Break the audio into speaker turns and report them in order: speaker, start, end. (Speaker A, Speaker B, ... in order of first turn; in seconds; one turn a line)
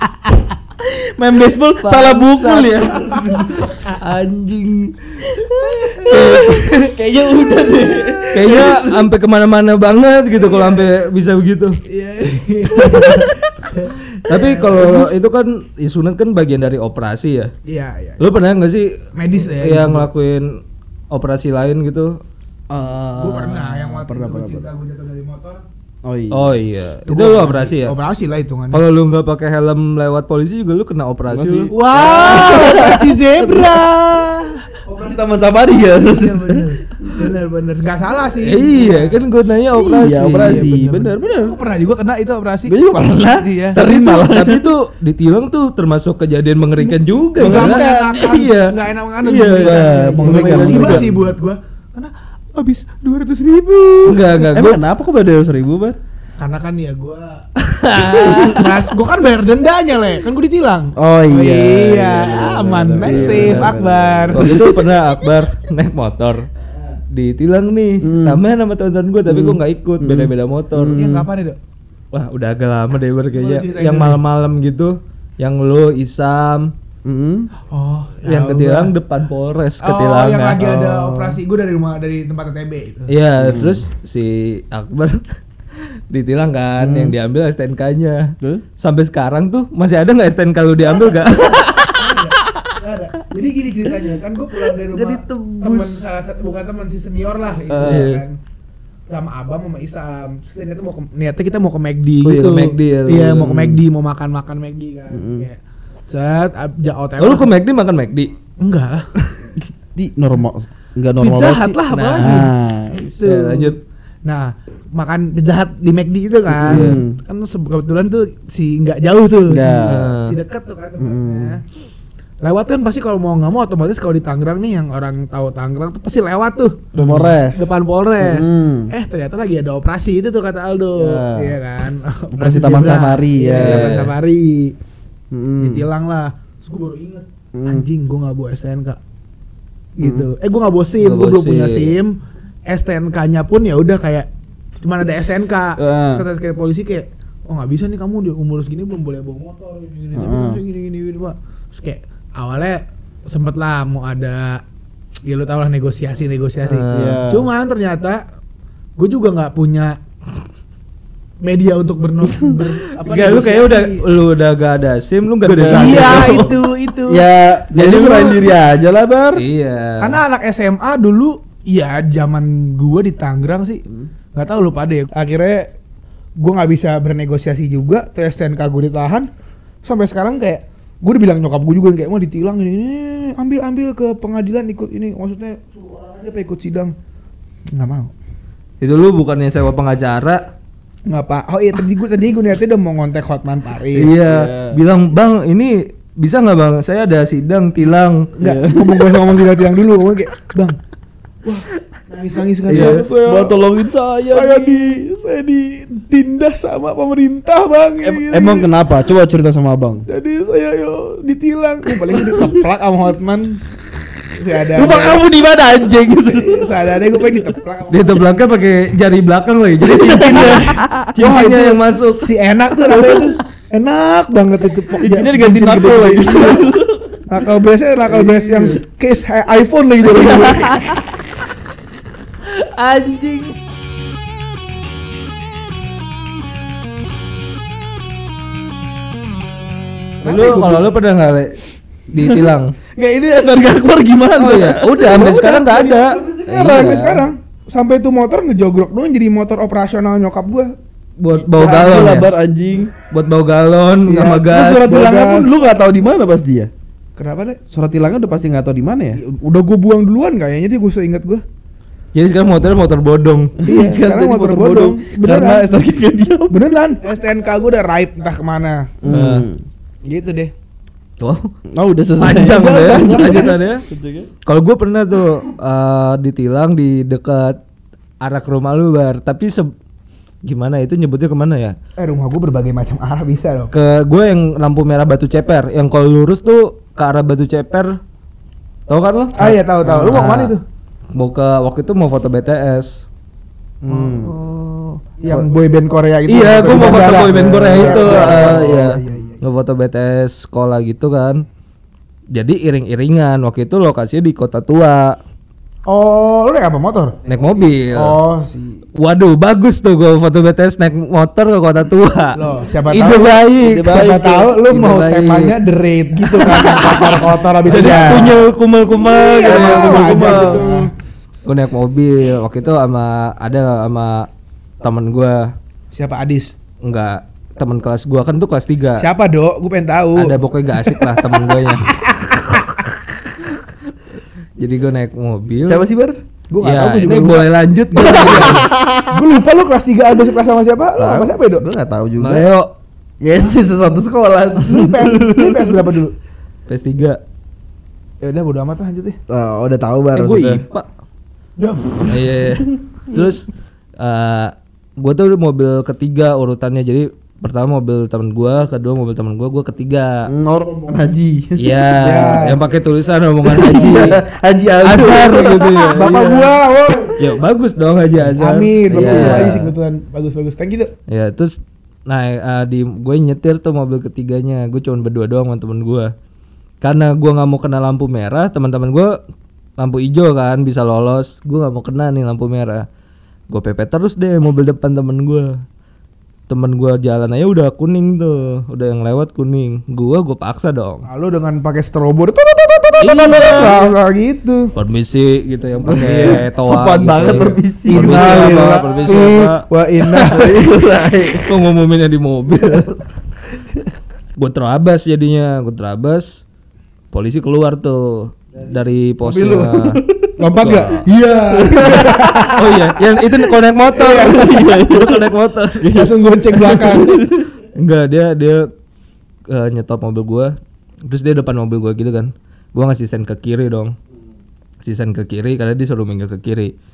Speaker A: 0.8-3.8
Speaker B: 1.8-2.9
Speaker B: 3.9-5.4
Speaker C: 5.5-6.6
Speaker A: 5.7-8.8
Speaker B: 6.0-6.9
Speaker C: 7.7-9.1
Speaker B: 8.3-11.8
Speaker C: 10.3-10.9
Speaker C: 11.9-15.1
Speaker B: 14.2-17.5
Speaker C: 17.7-18.2
Speaker B: 18.2-18.9
Speaker C: 19.1-20.1
Speaker B: 19.6-20.6
Speaker B: 21.1-22.2
Speaker A: 22.7-24.7
Speaker C: 23.2-25.6
Speaker A: 26.1-26.6
Speaker B: 26.3-27.9
Speaker C: 27.1-28.8
Speaker B: 28.7-31.7
Speaker A: 31.3-34.2
Speaker C: 31.7-34.8
Speaker A: 34.8-37.2
Speaker C: 35.7-39.2
Speaker B: 38.4-40.7
Speaker A: 39.8-41.6
Speaker C: 40.3-42.8
Speaker A: 42.7-44.6
Speaker C: 43.3-43.8
Speaker B: 43.8-51.1
Speaker C: 46.9-54.5
Speaker A: 47.4-47.9
Speaker A: 49.6-51.1
Speaker B: 54.0-54.8
Speaker A: 54.5-56.0
Speaker C: 56.4-57.5
Speaker B: 57.6-58.9
Speaker C: 58.0-64.7
Speaker A: 58.0-58.6
Speaker A: 61.0-64.8
Speaker B: 63.0-63.8
Speaker B: 64.3-66.5
Speaker B: 67.1-71.0
Speaker A: 68.0-68.4
Speaker A: 69.3-71.3
Speaker C: 71.0-71.6
Speaker B: 72.1-76.7
Speaker C: 73.3-74.2
Speaker A: 77.0-77.5
Speaker C: 77.7-78.9
Speaker B: 78.2-81.2
Speaker C: 79.8-83.1
Speaker B: 83.1-85.2
Speaker A: 83.4-83.8
Speaker B: 86.1-92.2
Speaker A: 86.8-87.2
Speaker C: 91.0-98.4
Speaker A: 94.9-96.1
Speaker A: 97.8-98.0
Speaker B: 97.8-98.2
Speaker C: 99.1-107.5
Speaker B: 102.2-103.7
Speaker A: 103.4-103.8
Speaker A: 105.1-105.5
Speaker B: 107.2-108.3
Speaker C: 108.6-109.1
Speaker A: 109.6-113.2
Speaker C: 111.2-121.6
Speaker B: 111.9-112.5
Speaker B: 113.2-113.8
Speaker A: 116.5-117.2
Speaker B: 116.7-117.0
Speaker A: 119.5-120.1
Speaker B: 119.9-120.4
Speaker A: 121.0-121.6
Speaker C: 122.4-126.9
Speaker B: 127.0-127.4
Speaker A: 127.0-127.7
Speaker C: 127.5-134.8
Speaker A: 128.2-128.9
Speaker A: 131.0-131.6
Speaker A: 132.3-134.0
Speaker B: 133.6-134.1
Speaker A: 135.3-135.8
Speaker C: 135.6-139.0
Speaker A: 137.5-137.9
Speaker C: 140.0-142.2
Speaker A: 140.0-140.3
Speaker B: 141.0-141.9
Speaker C: 142.7-144.3
Speaker C: 144.8-154.6
Speaker A: 145.8-146.2
Speaker A: 150.1-150.6
Speaker C: 155.2-158.2
Speaker B: 156.6-157.2
Speaker A: 156.9-157.5
Speaker C: 159.0-160.0
Speaker C: 161.4-164.0
Speaker B: 163.0-166.6
Speaker C: 165.4-167.2
Speaker A: 165.5-166.5
Speaker A: 167.1-169.4
Speaker B: 167.7-168.6
Speaker B: 169.3-170.2
Speaker C: 170.0-173.8
Speaker C: 174.3-175.7
Speaker C: 176.4-179.3
Speaker C: 179.8-186.9
Speaker C: 187.7-188.1
Speaker B: 188.8-190.4
Speaker C: 191.1-194.2
Speaker A: 193.9-194.8
Speaker B: 194.2-198.3
Speaker C: 198.4-200.8
Speaker A: 198.4-199.7
Speaker C: 201.4-208.7
Speaker A: 202.7-205.0
Speaker B: 202.7-203.0
Speaker A: 208.0-210.1
Speaker C: 210.1-213.6
Speaker A: 212.1-212.5
Speaker C: 214.4-215.2
Speaker A: 214.7-216.8
Speaker C: 216.2-218.5
Speaker B: 217.9-222.3
Speaker A: 219.8-221.1
Speaker C: 221.2-226.8
Speaker A: 224.9-227.2
Speaker C: 227.3-231.1
Speaker A: 228.2-228.7
Speaker B: 228.3-228.7
Speaker A: 230.1-231.0
Speaker B: 232.4-233.6
Speaker C: 240.2-240.9
Speaker B: 240.2-241.6
Speaker B: 242.1-242.7
Speaker A: 242.2-242.4
Speaker A: 243.0-247.2
Speaker B: 244.4-247.2
Speaker C: 245.0-245.9
Speaker C: 246.6-250.7
Speaker B: 251.2-252.3
Speaker A: 251.3-252.9
Speaker B: 253.1-254.9
Speaker C: 254.1-255.5
Speaker A: 254.5-256.7
Speaker C: 257.2-257.6
Speaker A: 257.7-259.2
Speaker C: 259.2-261.4
Speaker B: 262.1-263.6
Speaker A: 263.6-266.6
Speaker C: 263.7-265.7
Speaker C: 266.5-268.9
Speaker A: 269.0-269.6
Speaker B: 269.1-269.5
Speaker C: 270.1-270.5
Speaker A: 271.2-274.3
Speaker B: 272.2-273.9
Speaker C: 272.3-273.6
Speaker B: 274.4-277.6
Speaker B: 278.2-279.7
Speaker B: 280.4-281.8
Speaker C: 282.0-283.7
Speaker B: 283.7-288.0
Speaker B: 288.9-290.5
Speaker C: 289.4-290.6
Speaker A: 289.9-290.1
Speaker B: 291.1-293.1
Speaker A: 293.8-294.4
Speaker C: 293.9-299.4
Speaker B: 296.3-301.4
Speaker A: 296.7-299.4
Speaker B: 302.3-305.2
Speaker C: 305.9-307.2
Speaker B: 307.3-308.2
Speaker C: 307.9-308.8
Speaker B: 309.0-314.1
Speaker C: 312.3-320.9
Speaker A: 313.6-315.6
Speaker B: 316.4-320.7
Speaker A: 316.6-317.2
Speaker A: 317.7-318.4
Speaker A: 319.4-320.9
Speaker B: 321.4-324.3
Speaker B: 324.8-325.5
Speaker C: 325.9-326.5
Speaker B: 326.8-329.1
Speaker C: 329.0-332.6
Speaker B: 330.1-332.0
Speaker B: 332.5-333.5
Speaker B: 334.6-335.9
Speaker A: 335.6-336.2
Speaker C: 336.5-341.6
Speaker B: 336.6-338.7
Speaker A: 338.0-339.2
Speaker A: 341.0-342.5
Speaker B: 342.2-342.7
Speaker A: 343.2-345.8
Speaker C: 344.6-346.1
Speaker B: 346.7-347.2
Speaker C: 348.2-349.2
Speaker A: 349.3-350.6
Speaker B: 350.1-350.9
Speaker C: 351.6-352.5
Speaker B: 352.1-353.5
Speaker B: 354.0-360.3
Speaker A: 360.3-361.9
Speaker B: 361.6-364.2
Speaker C: 362.0-362.7
Speaker C: 363.6-364.2
Speaker A: 363.6-366.1
Speaker B: 364.9-366.5
Speaker C: 365.9-367.3
Speaker B: 367.2-369.7
Speaker C: 368.1-370.9
Speaker A: 368.9-369.6
Speaker B: 371.1-371.5
Speaker B: 372.1-376.1
Speaker B: 376.8-379.1
Speaker B: 379.8-382.9
Speaker B: 383.5-385.6
Speaker B: 386.5-391.1
Speaker C: 391.1-394.7
Speaker B: 393.0-393.8
Speaker B: 394.8-399.6
Speaker C: 395.8-396.4
Speaker A: 395.9-399.3
Speaker C: 397.2-400.7
Speaker A: 400.2-401.5
Speaker B: 401.4-403.0
Speaker B: 404.4-406.4
Speaker B: 407.1-410.0
Speaker A: 409.2-410.3
Speaker C: 410.4-412.8
Speaker B: 410.6-411.1
Speaker A: 411.5-412.8
Speaker B: 411.8-415.9
Speaker C: 413.9-414.9
Speaker A: 414.0-417.5
Speaker C: 415.9-417.2
Speaker B: 417.8-418.7
Speaker B: 419.5-424.0
Speaker B: 424.8-426.7